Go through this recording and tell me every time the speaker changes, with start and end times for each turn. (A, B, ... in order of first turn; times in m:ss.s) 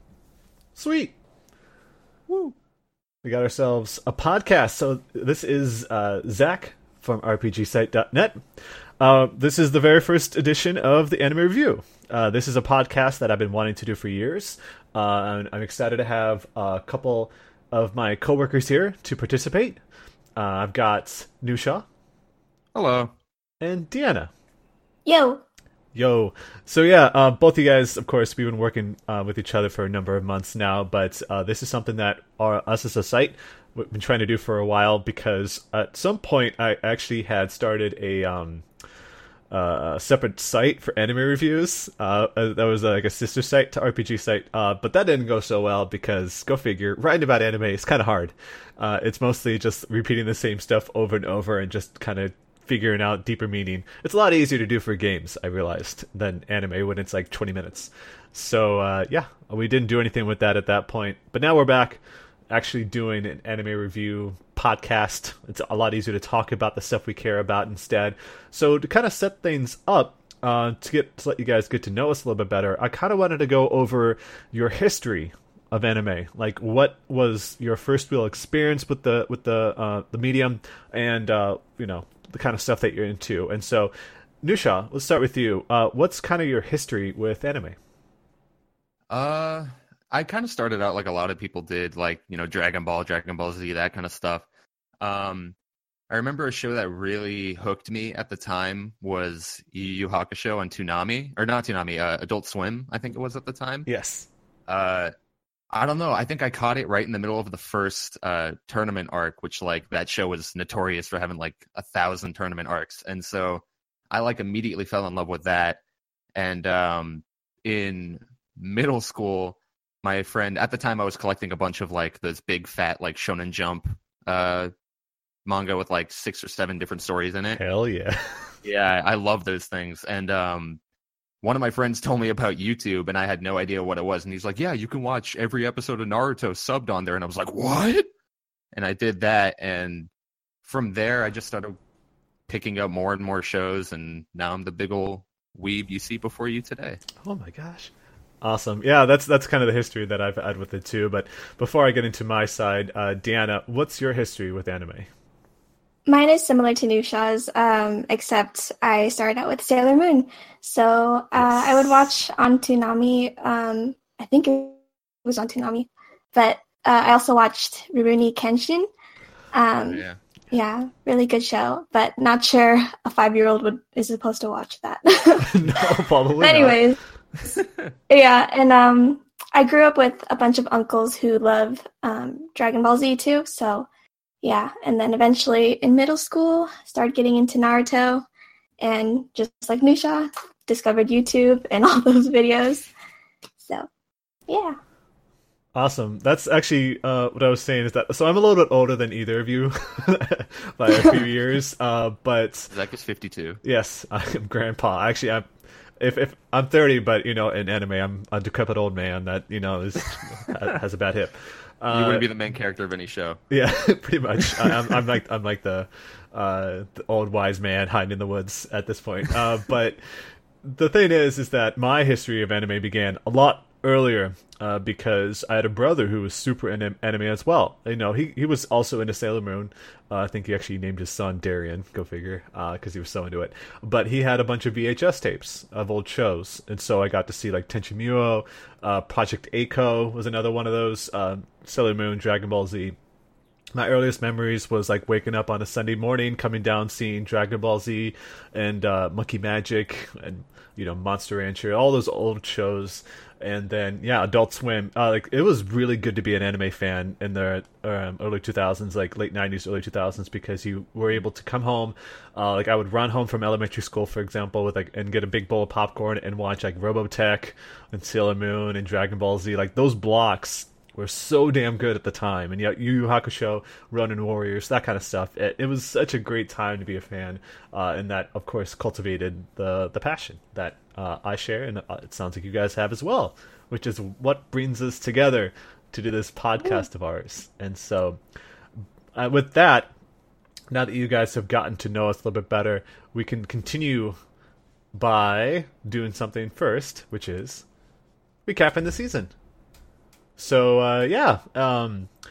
0:00.7-0:01.1 A
0:02.3-0:02.5 B
0:03.2-0:19.8 A
0:20.4-0:21.8 A
0:22.7-0:23.1 B
0:23.6-0:24.3 A
0:25.0-0:25.4 C
0:25.9-0:38.6 A
0:39.5-1:27.8 A
1:29.1-1:34.4 B
1:35.0-1:35.5 B
1:36.1-1:43.9 B
1:43.8-1:44.3 A
1:44.7-1:45.1 B
1:45.7-1:55.8 B
1:56.3-2:04.7 B
2:05.4-2:07.6 B
2:07.5-2:08.5 A
2:08.6-2:10.8 B
2:11.4-2:18.0 B
2:18.7-2:20.1 B
2:20.6-2:21.8 B
2:22.5-2:27.0 B
2:27.2-2:35.1 A
2:36.1-2:48.9 C
2:49.5-2:57.0 C
2:49.8-2:50.2 B
2:55.4-2:56.8 A
2:57.5-2:57.9 B
2:58.1-3:03.9 C
3:04.4-3:08.2 C
3:08.8-3:12.9 C
3:13.6-3:13.9 C
3:14.5-3:14.8 C
3:15.7-3:22.7 A
3:22.7-3:23.6 B
3:23.6-3:25.5 A
3:26.0-3:32.3 A
3:31.9-3:33.4 B
3:33.5-4:03.0 A
3:34.6-3:35.0 B
4:03.7-4:48.2 A
4:49.1-4:49.9 A
4:50.7-4:54.1 A
4:54.9-4:57.6 A
4:58.4-4:59.3 A
5:00.4-5:02.1 A